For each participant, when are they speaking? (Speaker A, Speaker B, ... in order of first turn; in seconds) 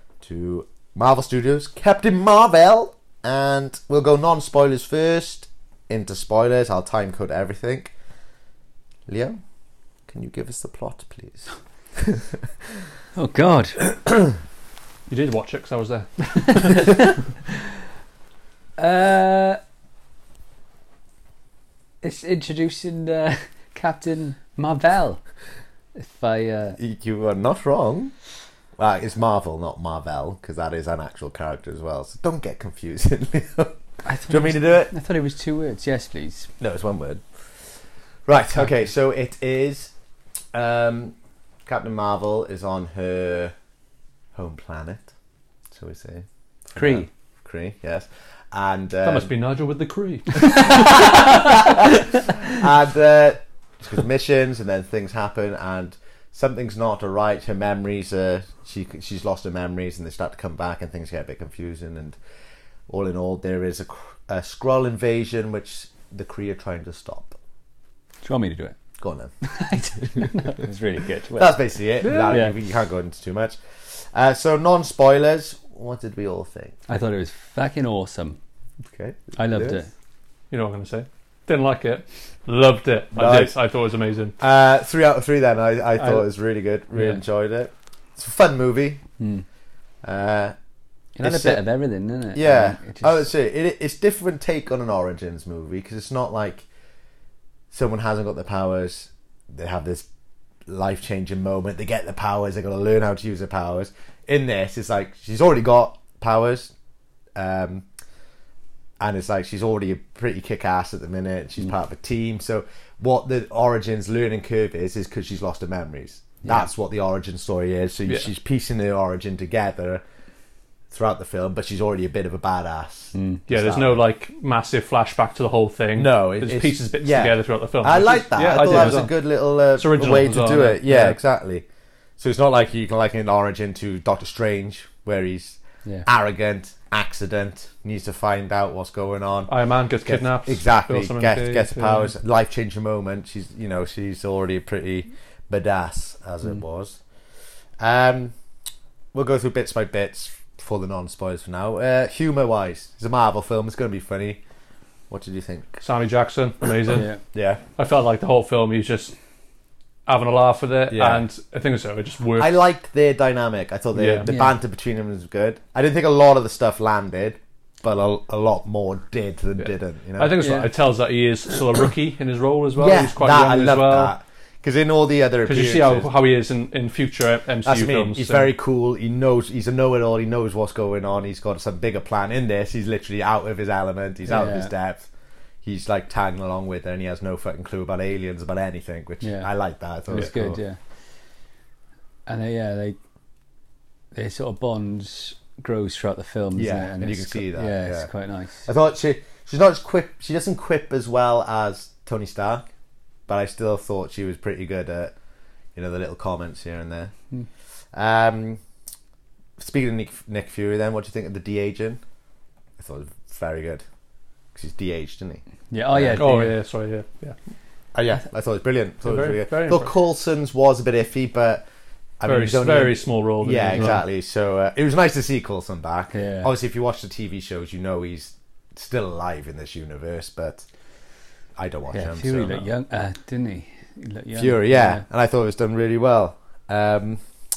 Speaker A: 0.2-7.9, 9.1-9.4, 10.1-12.4, 26.8-28.1, 28.8-34.9, 36.6-37.2, 38.3-39.9, 40.5-41.1, 41.7-43.5, 44.4-45.1, 45.7-49.3, 50.5-62.2, 62.9-67.4, 69.0-69.3, 70.0-70.5, 71.4-76.8, 78.9-79.8, 83.1-83.5, 84.4-89.0, 90.0-90.6, 91.2-91.6, 92.3-96.7, 97.7-100.1, 100.7-106.7, 107.3-107.9, 109.0-120.0, 120.9-124.0, 126.0-131.7, 132.2-147.0, 147.8-148.3, 149.1-154.4, 155.1-155.8, 157.3-157.6, 160.9-161.3, 162.4-170.4, 172.8-176.1, 177.6-185.1, 185.6-190.6, 196.6-198.1, 198.7-202.7, 203.3-205.1, 205.8-207.1, 207.9-208.6, 209.6-212.0, 212.8-213.8, 214.6-216.3, 217.9-221.7, 222.2-230.7, 231.6-232.7, 234.3-237.2
Speaker B: 13.2-13.8, 16.6-16.9, 18.8-19.6, 22.0-25.2, 25.9-26.8, 34.0-36.5, 46.8-47.1, 68.2-68.8, 69.4-72.5, 76.9-78.4, 79.4-79.9, 89.2-89.5, 91.2-93.3, 123.1-123.4, 156.9-157.2, 164.3-164.5, 170.4-170.7, 184.3-184.7, 189.2-189.5, 190.1-190.8, 192.3-193.0, 194.1-198.7, 215.7-216.5, 226.1-226.5, 231.9-235.1
Speaker C: 15.1-17.0, 49.0-51.3, 72.0-72.5, 80.5-84.3, 86.0-86.2, 123.5-131.2, 139.5-142.1, 155.8-157.1, 157.8-159.1, 160.1-162.6, 163.9-164.3, 169.6-174.1, 175.4-178.5, 216.2-217.4, 219.1-219.9, 222.2-224.0